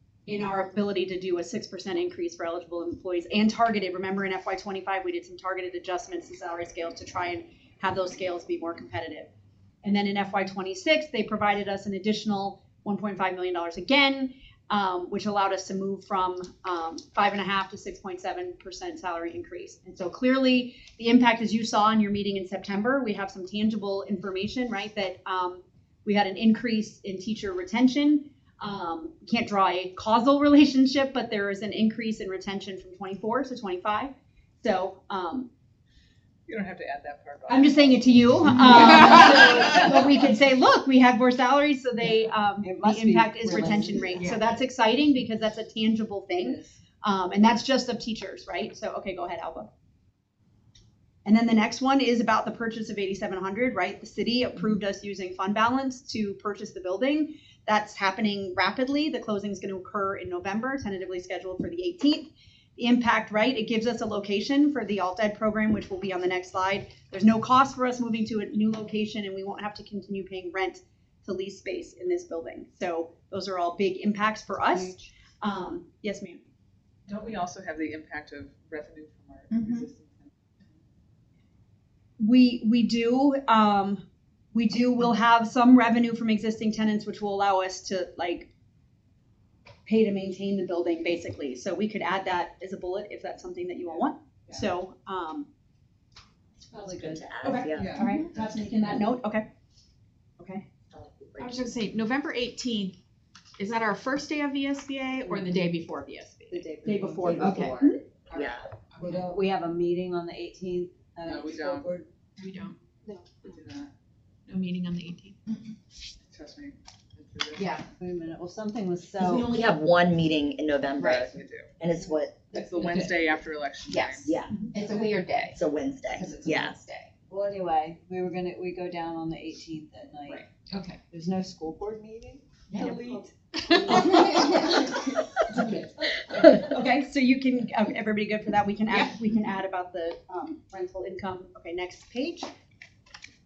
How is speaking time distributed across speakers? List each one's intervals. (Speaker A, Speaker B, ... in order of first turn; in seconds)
Speaker A: 0.3-9.3, 9.8-35.5, 37.5-49.7, 51.2-76.4, 82.2-88.5, 89.8-95.5, 97.4-99.5, 100.4-100.6, 106.8-108.0, 132.8-133.2, 135.6-135.8, 136.5-142.5
Speaker B: 36.5-38.0, 38.8-39.2, 77.1-80.3, 97.7-98.2, 111.2-111.9, 113.4-113.9, 116.2-117.8, 121.0-121.7, 122.5-124.4, 132.8-133.2
Speaker C: 42.6-44.3, 46.4-46.8, 96.7-97.6, 106.5-107.9, 109.0-112.1, 118.0-119.5, 126.1-126.5, 127.3-130.4, 131.1-132.9, 133.7-136.6
Speaker D: 96.8-98.0, 100.9-101.8, 108.3-108.7, 119.2-122.8, 124.2-124.6, 125.5-126.8
Speaker E: 101.4-103.0, 103.6-106.6, 108.9-109.2, 112.4-112.7, 114.5-115.3
Speaker F: 123.9-125.6, 126.2-127.1